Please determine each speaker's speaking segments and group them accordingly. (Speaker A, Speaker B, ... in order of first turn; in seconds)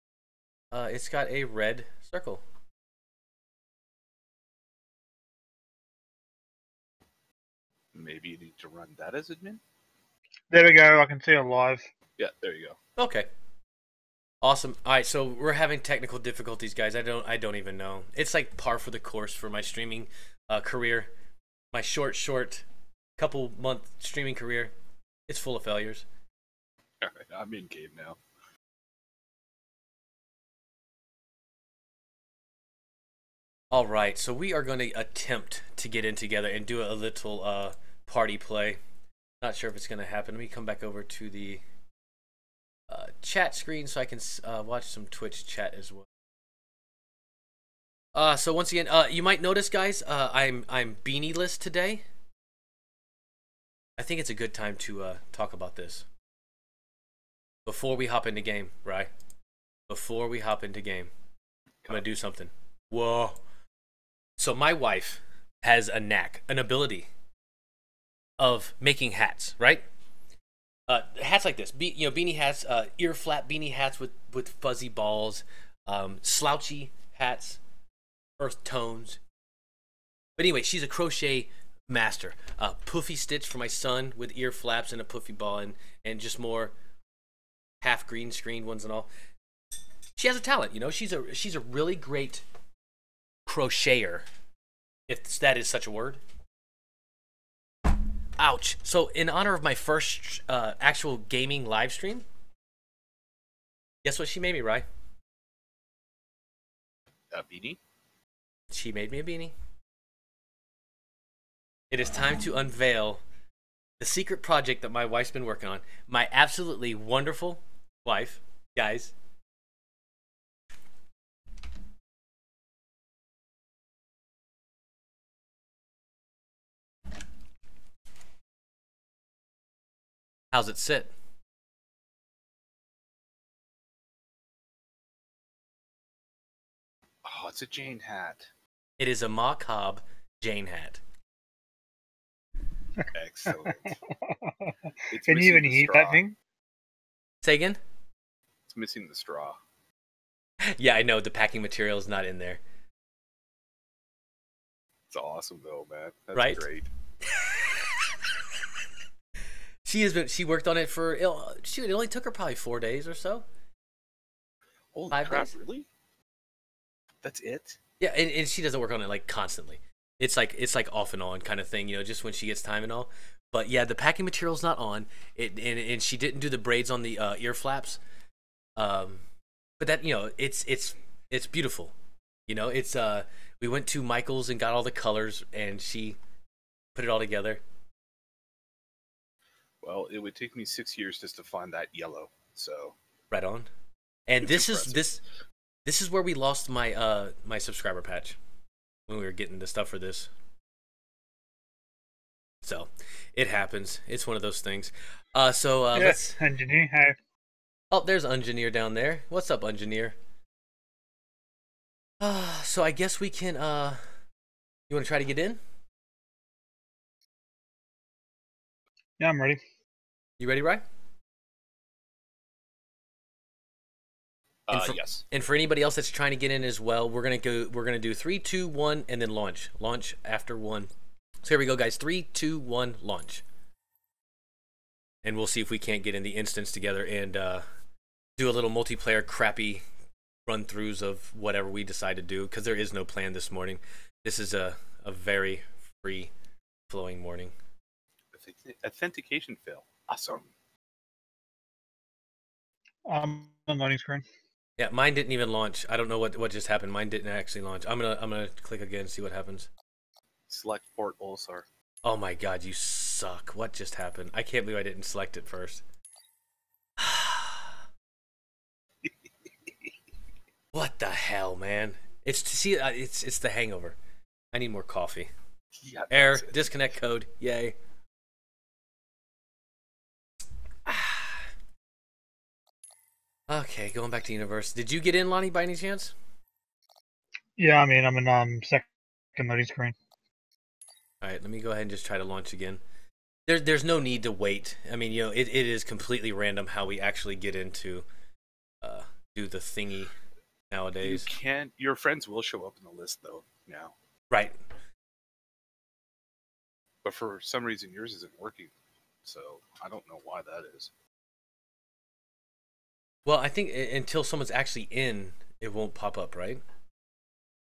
Speaker A: 0.7-2.4, 13.0-13.3, 14.4-21.1, 21.7-22.6, 23.2-24.7, 25.3-26.0, 33.7-38.8, 39.4-41.6, 42.9-46.0, 48.1-52.0, 54.0-56.0, 57.6-59.1, 59.9-61.1, 61.9-63.4, 64.4-67.1, 68.4-69.8, 70.9-77.6, 78.4-79.2, 80.4-86.7, 87.8-89.1, 90.1-92.4, 93.5-94.2, 95.1-96.2, 98.4-102.2, 104.0-104.8, 108.7-109.5, 111.9-113.2, 114.0-119.1, 130.5-131.1, 139.0-141.0, 147.4-147.8, 150.7-152.6, 156.3-156.7, 157.3-157.8, 159.8-163.4, 165.1-165.5, 168.0-178.0, 178.8-179.2, 179.8-181.9, 182.5-186.2, 186.9-187.6, 193.3-193.7, 194.3-195.2, 195.8-198.4, 199.1-200.3, 202.6-206.4, 207.9-210.2, 212.2-214.0, 214.9-215.6, 220.4-220.8, 224.7-230.9, 231.4-233.4, 235.2-237.6, 238.4-239.8, 240.5-246.3, 246.9-247.5, 254.8-259.7, 262.0-265.8, 267.0-267.7, 270.7-273.9, 274.5-275.3, 276.1-277.8, 280.9-281.4, 283.5-286.1, 291.2-292.8, 293.5-298.0, 298.8-300.1, 300.7-301.3, 304.3-304.6, 313.2-316.6
Speaker B: 7.9-9.6, 12.2-12.8, 27.0-28.2, 107.3-107.8, 137.2-138.5, 143.1-144.0, 145.1-146.2, 148.7-149.6, 155.1-156.9, 164.9-165.9, 167.2-167.8, 189.8-192.9, 194.4-195.0, 224.7-225.2, 248.3-250.5, 260.5-261.6, 275.8-276.7, 301.0-303.9, 307.0-308.7, 309.2-310.9
Speaker C: 10.5-11.9, 144.3-144.7, 145.2-146.3, 205.9-207.2, 219.2-219.6, 253.1-254.2, 287.6-289.9